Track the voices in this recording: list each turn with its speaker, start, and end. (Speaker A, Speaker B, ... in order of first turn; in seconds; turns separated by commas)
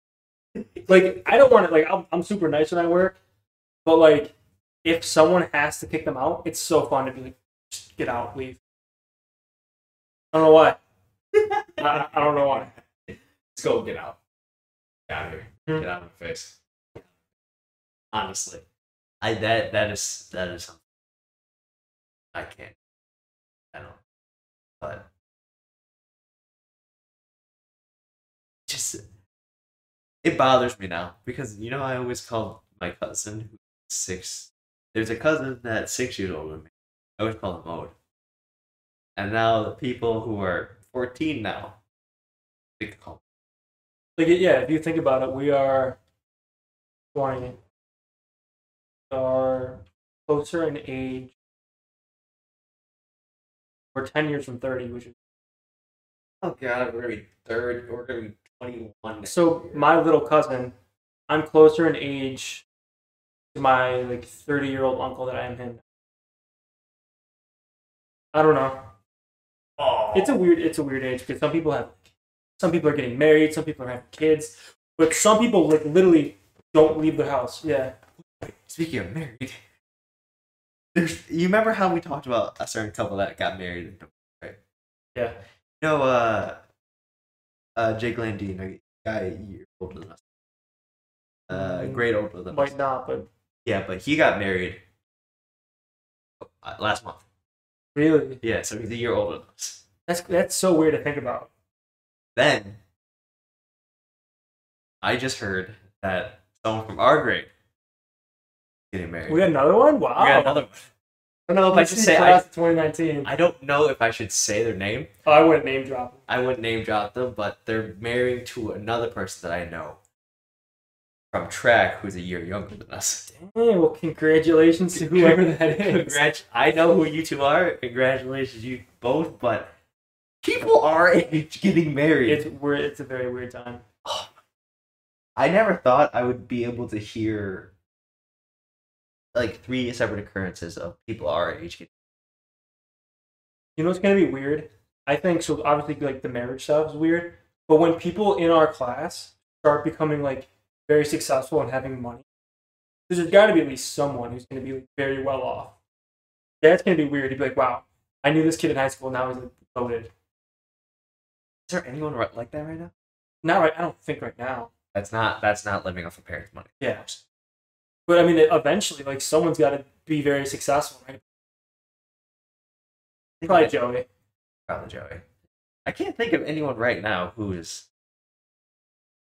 Speaker A: 0.9-3.2, Speaker A: 3.8-8.6, Speaker A: 10.3-10.8, Speaker B: 11.3-14.2, Speaker A: 11.8-12.7, Speaker B: 15.1-17.0, Speaker B: 18.1-18.6, Speaker B: 19.2-20.8, Speaker B: 22.3-22.8, Speaker B: 23.7-24.0, Speaker B: 24.8-25.1, Speaker B: 28.7-29.0, Speaker B: 30.2-37.9, Speaker B: 39.1-41.8, Speaker B: 42.8-43.2, Speaker A: 44.2-46.0, Speaker A: 47.1-47.6, Speaker A: 49.1-51.3, Speaker A: 53.9-55.1, Speaker B: 56.4-59.8, Speaker A: 59.2-60.7, Speaker A: 61.3-62.6, Speaker A: 63.5-65.8, Speaker A: 68.3-68.9, Speaker B: 69.8-70.4, Speaker A: 70.1-72.0, Speaker A: 72.6-77.9, Speaker B: 78.2-79.6, Speaker B: 80.9-84.6, Speaker B: 85.8-86.6, Speaker B: 87.8-90.2, Speaker B: 91.5-92.8, Speaker A: 91.5-93.3, Speaker B: 93.6-94.8, Speaker B: 96.4-97.2, Speaker A: 97.9-98.4, Speaker B: 98.4-99.8, Speaker A: 100.1-101.5, Speaker B: 102.3-102.8, Speaker B: 105.0-107.5, Speaker B: 108.9-109.5, Speaker A: 109.3-110.6, Speaker B: 110.2-110.9, Speaker B: 111.5-112.4, Speaker A: 111.7-113.3, Speaker B: 113.2-115.1, Speaker A: 115.2-116.2, Speaker B: 116.3-120.0, Speaker B: 121.3-123.3, Speaker A: 123.3-126.2, Speaker B: 124.9-129.7, Speaker B: 130.4-132.4, Speaker A: 132.3-133.8, Speaker B: 134.0-134.3, Speaker B: 135.3-137.7, Speaker B: 139.3-141.9, Speaker A: 143.8-152.2, Speaker A: 153.1-155.7, Speaker A: 156.6-160.1, Speaker B: 161.7-162.9, Speaker A: 163.4-164.7, Speaker B: 164.9-167.2, Speaker A: 166.8-167.0, Speaker A: 168.1-171.2, Speaker B: 173.4-173.8, Speaker A: 173.4-174.1, Speaker B: 174.7-175.3, Speaker B: 175.8-177.9